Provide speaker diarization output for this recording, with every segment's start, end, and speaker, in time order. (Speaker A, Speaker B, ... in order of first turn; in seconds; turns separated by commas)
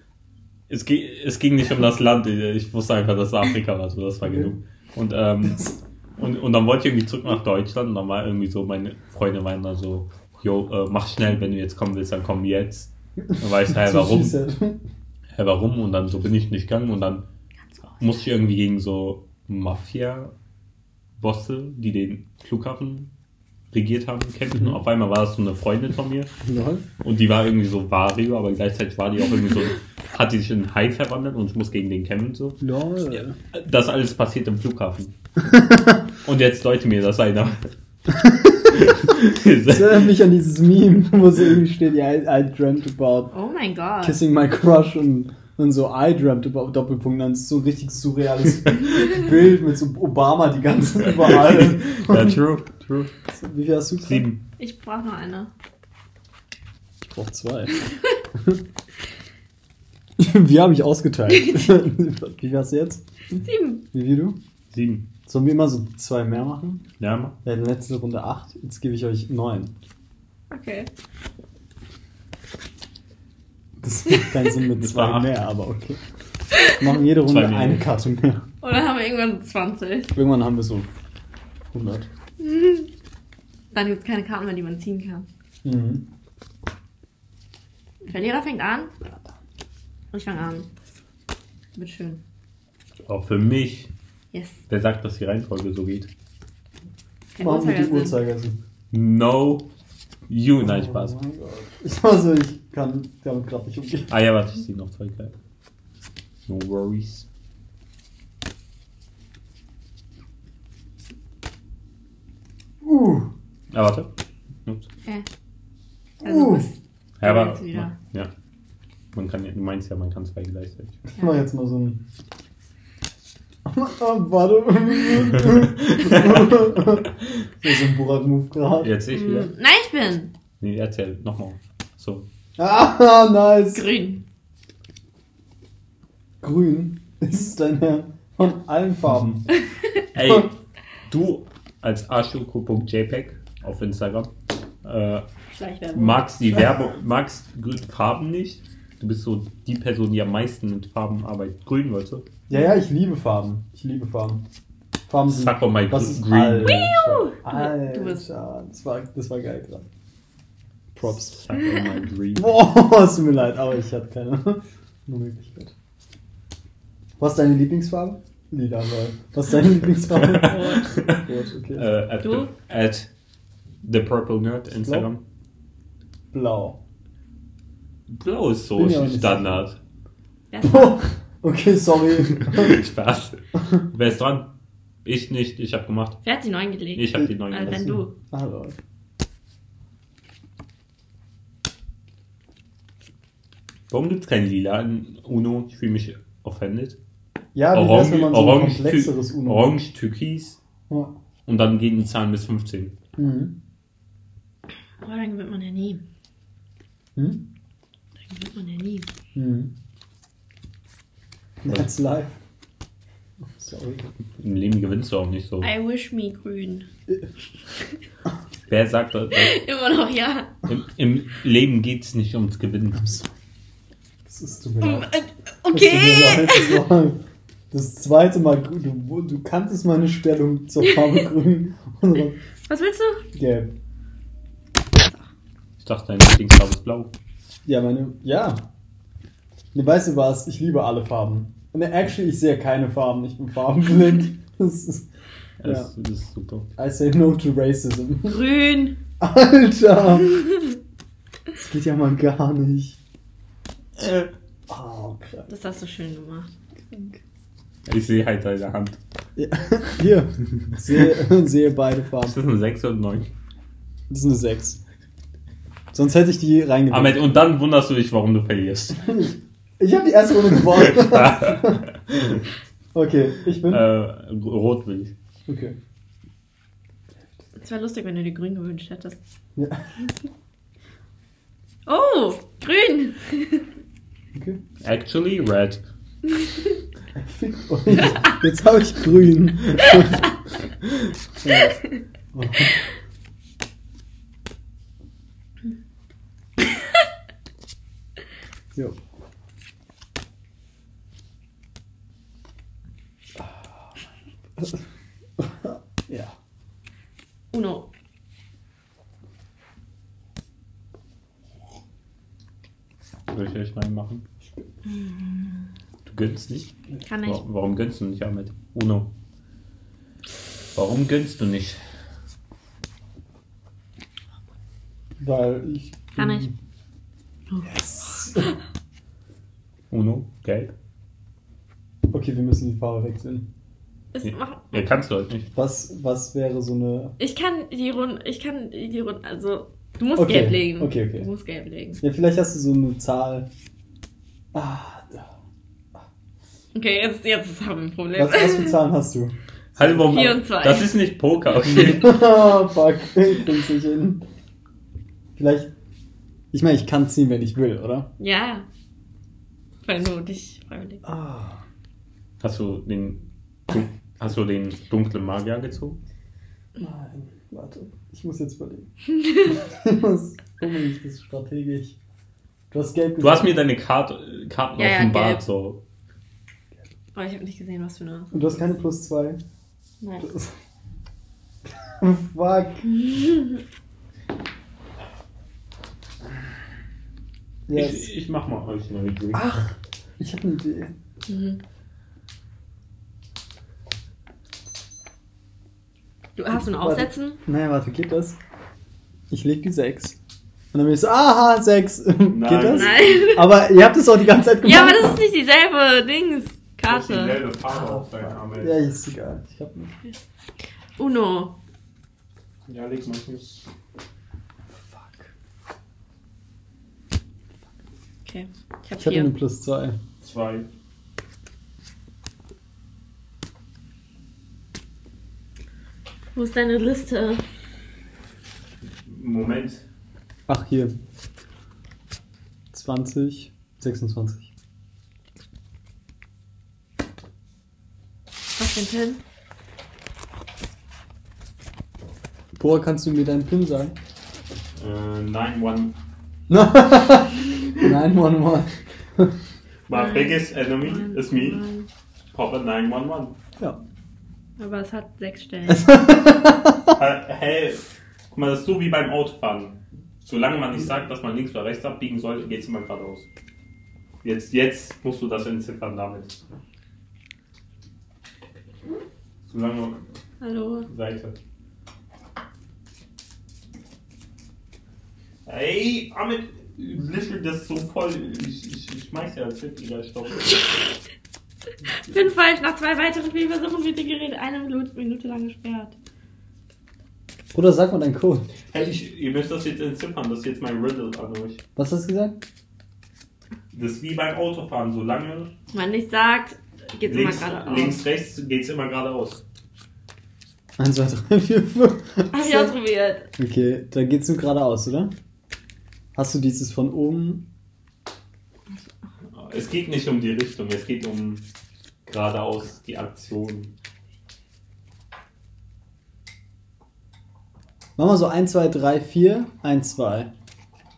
Speaker A: 0.7-14.4, Speaker B: 13.3-14.8, Speaker A: 15.3-17.2, Speaker A: 18.0-20.3, Speaker A: 21.2-23.1, Speaker A: 23.7-26.3, Speaker B: 26.4-26.9, Speaker A: 27.0-32.6, Speaker B: 32.6-33.4, Speaker A: 33.5-35.1, Speaker B: 35.5-36.0, Speaker A: 36.2-37.7, Speaker A: 38.6-40.1, Speaker B: 39.7-43.3, Speaker C: 43.3-44.2, Speaker B: 44.0-52.4, Speaker A: 51.2-53.1, Speaker B: 53.3-54.3, Speaker A: 54.0-54.4, Speaker C: 54.6-55.5, Speaker B: 57.0-58.6, Speaker B: 60.2-63.0, Speaker C: 63.4-63.8, Speaker B: 63.9-64.4, Speaker A: 64.7-65.1, Speaker B: 65.2-66.9, Speaker A: 67.0-67.4, Speaker B: 67.4-69.7, Speaker C: 70.5-70.9, Speaker B: 73.8-76.0, Speaker A: 74.8-75.3, Speaker B: 76.6-78.5, Speaker A: 77.2-77.9, Speaker C: 78.6-80.1, Speaker B: 80.1-80.9, Speaker B: 81.7-82.1, Speaker C: 82.4-82.9, Speaker C: 83.7-85.3, Speaker B: 85.6-86.1, Speaker C: 88.0-88.9, Speaker C: 90.1-90.7, Speaker C: 91.8-92.2, Speaker A: 93.1-93.9, Speaker C: 94.3-94.6, Speaker A: 94.7-96.1, Speaker C: 97.3-98.2, Speaker B: 97.4-98.6, Speaker A: 98.9-99.7, Speaker A: 100.3-101.2, Speaker B: 100.6-104.1, Speaker A: 104.1-105.3, Speaker A: 106.5-107.2, Speaker B: 112.8-113.3, Speaker A: 113.7-114.1, Speaker B: 116.2-116.7, Speaker C: 116.2-117.9, Speaker A: 117.2-118.3, Speaker A: 119.1-121.0, Speaker B: 121.2-122.0, Speaker B: 123.7-128.9, Speaker A: 125.8-126.5, Speaker A: 128.8-129.5, Speaker C: 129.1-130.3, Speaker A: 130.6-132.2, Speaker B: 132.6-133.9, Speaker C: 133.7-134.2, Speaker B: 136.4-139.4, Speaker A: 140.1-140.6, Speaker A: 141.1-144.3, Speaker A: 144.8-145.2, Speaker C: 145.5-146.2, Speaker A: 145.9-152.3, Speaker B: 152.5-154.4, Speaker B: 155.1-159.9, Speaker A: 155.3-157.0, Speaker C: 156.6-158.2, Speaker B: 160.9-161.4, Speaker A: 161.0-162.5, Speaker C: 161.6-161.9, Speaker B: 162.4-165.7, Speaker B: 167.2-171.9, Speaker A: 170.2-171.2, Speaker C: 170.5-170.9, Speaker A: 171.8-173.1, Speaker A: 173.8-175.2, Speaker B: 174.7-175.1, Speaker B: 176.3-176.8, Speaker A: 178.1-179.8, Speaker B: 178.8-179.6, Speaker C: 180.5-181.0, Speaker B: 180.6-182.8, Speaker A: 182.4-184.5, Speaker A: 185.1-186.2, Speaker C: 186.2-188.1, Speaker A: 187.0-187.8, Speaker B: 187.1-188.8, Speaker A: 193.9-197.0, Speaker B: 197.6-199.7, Speaker A: 197.7-200.6, Speaker B: 200.9-201.1, Speaker A: 201.5-202.9, Speaker B: 203.2-203.6, Speaker C: 205.0-206.0, Speaker B: 207.2-207.4, Speaker C: 208.3-209.1, Speaker B: 209.3-209.7, Speaker B: 211.6-212.3, Speaker B: 213.5-214.1, Speaker A: 214.4-215.7, Speaker C: 215.6-216.9, Speaker A: 218.7-219.6, Speaker C: 219.4-220.5, Speaker A: 220.7-223.1, Speaker B: 223.0-223.3, Speaker B: 224.3-225.1, Speaker C: 224.8-226.8, Speaker B: 225.7-232.4, Speaker C: 232.7-233.2, Speaker B: 233.3-233.7, Speaker C: 235.0-235.2, Speaker A: 235.8-237.1, Speaker B: 237.6-238.7, Speaker B: 239.7-245.1, Speaker A: 245.6-246.7, Speaker B: 245.6-245.9, Speaker B: 246.8-248.4, Speaker C: 248.3-249.0, Speaker B: 249.2-250.4, Speaker B: 251.6-253.0, Speaker A: 254.0-254.3, Speaker B: 254.7-255.5, Speaker C: 255.5-256.5, Speaker B: 256.9-257.2, Speaker A: 257.9-259.0, Speaker B: 259.4-262.4, Speaker A: 262.2-263.3, Speaker B: 264.1-264.8, Speaker B: 265.9-267.2, Speaker A: 266.9-269.2, Speaker B: 269.0-271.9, Speaker A: 270.7-272.4, Speaker B: 272.9-273.8, Speaker A: 273.7-275.1, Speaker B: 275.5-275.8, Speaker C: 277.6-279.2, Speaker B: 279.6-279.8, Speaker C: 281.9-283.7, Speaker B: 284.4-284.6, Speaker A: 284.8-285.8, Speaker B: 287.1-290.3, Speaker B: 291.4-291.8, Speaker B: 292.3-292.8, Speaker B: 298.8-299.0, Speaker B: 303.4-303.9, Speaker B: 305.4-306.4, Speaker C: 307.5-307.9, Speaker A: 313.3-314.2, Speaker C: 314.9-315.7, Speaker A: 316.1-316.7, Speaker C: 317.0-317.4, Speaker A: 317.2-319.1, Speaker A: 320.8-321.8, Speaker B: 325.2-326.5, Speaker C: 326.2-326.5, Speaker C: 327.5-328.5, Speaker B: 327.6-328.5, Speaker A: 329.9-330.7, Speaker B: 332.1-333.5, Speaker C: 334.1-334.8, Speaker A: 334.2-335.5, Speaker B: 335.6-337.1, Speaker C: 337.2-342.0, Speaker B: 340.1-341.3, Speaker B: 342.0-343.5, Speaker B: 344.5-345.3, Speaker C: 346.8-348.8, Speaker B: 348.1-349.4, Speaker A: 349.8-352.2, Speaker C: 349.9-350.9, Speaker B: 351.6-354.2, Speaker B: 355.4-355.7, Speaker B: 356.5-358.1, Speaker C: 358.2-358.7, Speaker C: 359.8-361.0, Speaker B: 361.0-361.6, Speaker A: 362.4-366.0, Speaker B: 366.8-368.9, Speaker C: 369.2-369.6, Speaker B: 369.5-372.0, Speaker B: 372.7-373.6, Speaker A: 373.2-375.8, Speaker C: 374.8-375.4, Speaker C: 377.1-378.6, Speaker B: 378.3-379.4, Speaker C: 380.0-380.3, Speaker B: 380.2-380.5, Speaker B: 382.0-382.9, Speaker B: 387.7-388.1, Speaker A: 387.7-389.6, Speaker B: 389.3-390.9, Speaker C: 391.3-391.6, Speaker C: 396.4-397.4, Speaker B: 396.7-398.4, Speaker B: 399.3-400.2, Speaker B: 400.7-405.2, Speaker A: 402.3-403.3, Speaker C: 402.7-403.5, Speaker C: 404.6-407.4, Speaker A: 406.9-408.8, Speaker B: 407.7-409.9, Speaker C: 410.9-411.6, Speaker A: 412.7-413.6, Speaker B: 414.9-415.2, Speaker C: 418.2-419.3, Speaker B: 419.0-420.0, Speaker A: 420.2-420.6, Speaker C: 426.3-427.5, Speaker A: 429.1-429.9, Speaker B: 430.5-431.0, Speaker B: 432.7-434.5, Speaker C: 438.6-439.2, Speaker B: 442.6-443.9, Speaker A: 444.8-445.9, Speaker B: 446.5-449.4, Speaker A: 449.9-451.6, Speaker C: 449.9-451.9, Speaker A: 452.3-453.4, Speaker C: 454.6-456.0, Speaker B: 455.7-456.9, Speaker A: 456.9-463.3, Speaker A: 464.2-466.4, Speaker A: 469.5-470.0, Speaker C: 470.4-470.9, Speaker A: 470.9-471.4, Speaker A: 475.4-480.8, Speaker C: 482.0-485.9, Speaker B: 487.5-488.5, Speaker A: 488.7-491.6, Speaker B: 491.8-492.4, Speaker A: 493.7-495.5, Speaker C: 495.7-498.0, Speaker A: 497.1-499.4, Speaker B: 500.8-502.7, Speaker C: 502.3-503.3, Speaker B: 503.4-505.1, Speaker B: 506.1-507.4, Speaker A: 509.3-511.4, Speaker A: 512.1-513.7, Speaker B: 518.0-520.3